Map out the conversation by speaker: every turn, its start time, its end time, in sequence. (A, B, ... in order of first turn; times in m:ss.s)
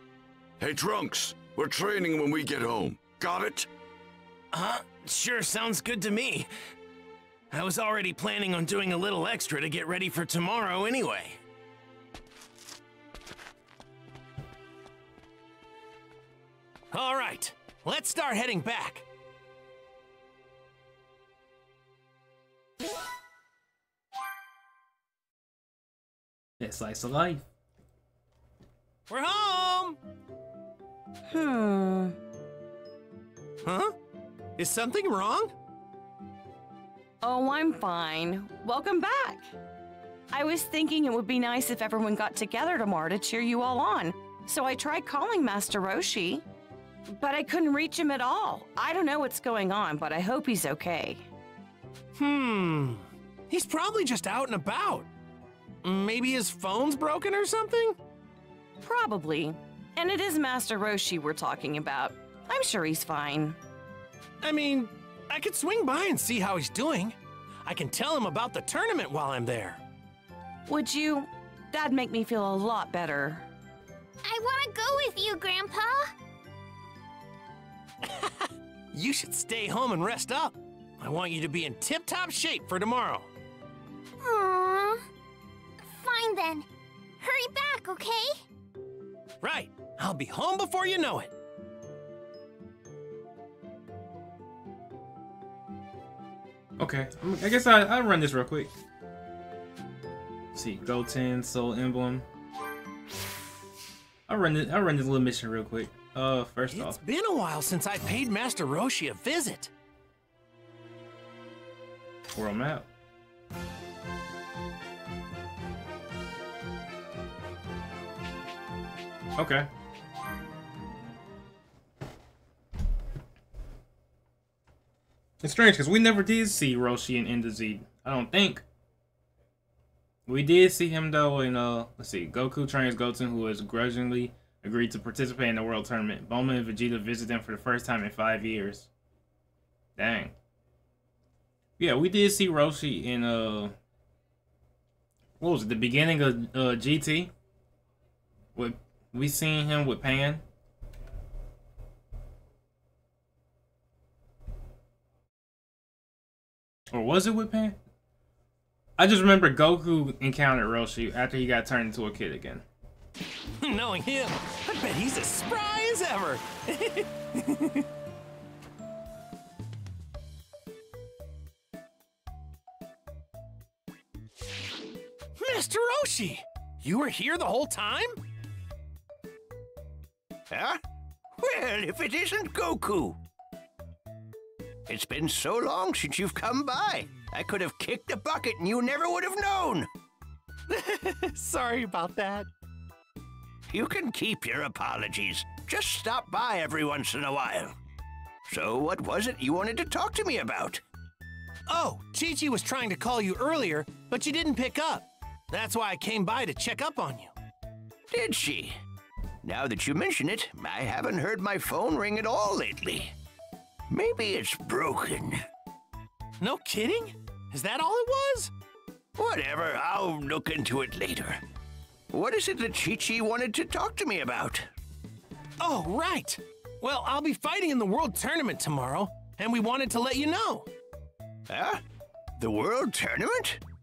0:00.6-0:03.7 A
0:04.5-0:06.5 B
0:07.5-0:11.4 B
0:16.9-0:19.0 B
0:26.6-0:27.4 C
0:29.1-0:30.0 B
0:31.3-0:32.1 D
0:33.6-0:33.9 B
0:34.6-0:35.5 B
0:37.2-0:39.5 D
0:40.3-0:46.4 D
0:47.1-0:51.2 D
0:52.2-0:55.1 B
0:55.8-0:58.0 B
0:58.8-1:03.6 D
1:04.4-1:09.8 B
1:10.7-1:13.4 D
1:14.2-1:16.1 E
1:18.0-1:23.3 B
1:24.2-1:25.0 E
1:25.8-1:26.7 E
1:27.2-1:28.4 E
1:29.4-1:31.3 B
1:36.8-1:38.7 C
1:40.5-1:42.3 C
1:44.3-1:47.0 C
1:46.7-1:49.7 B
1:52.4-1:52.9 C
1:59.4-1:59.7 C
2:05.4-2:08.6 C
2:10.3-2:18.9 C
2:20.0-2:20.3 C
2:21.8-2:23.7 C
2:25.4-2:27.3 C
2:28.6-2:30.4 C
2:36.9-2:37.8 C
2:39.0-2:42.6 C
2:43.6-2:47.9 B
2:55.4-2:58.2 B
3:00.5-3:00.8 F
3:01.4-3:03.2 F
3:04.9-3:09.9 F
3:10.7-3:12.5 B
3:13.7-3:17.8 F
3:18.5-3:20.8 F
3:21.7-3:27.3 B
3:28.1-3:28.8 F
3:29.4-3:33.1 F
3:33.9-3:35.4 F
3:36.4-3:38.5 B
3:39.2-3:41.4 F
3:42.1-3:44.7 F
3:45.6-3:50.7 B
3:51.5-3:51.8 F
3:52.4-3:53.6 F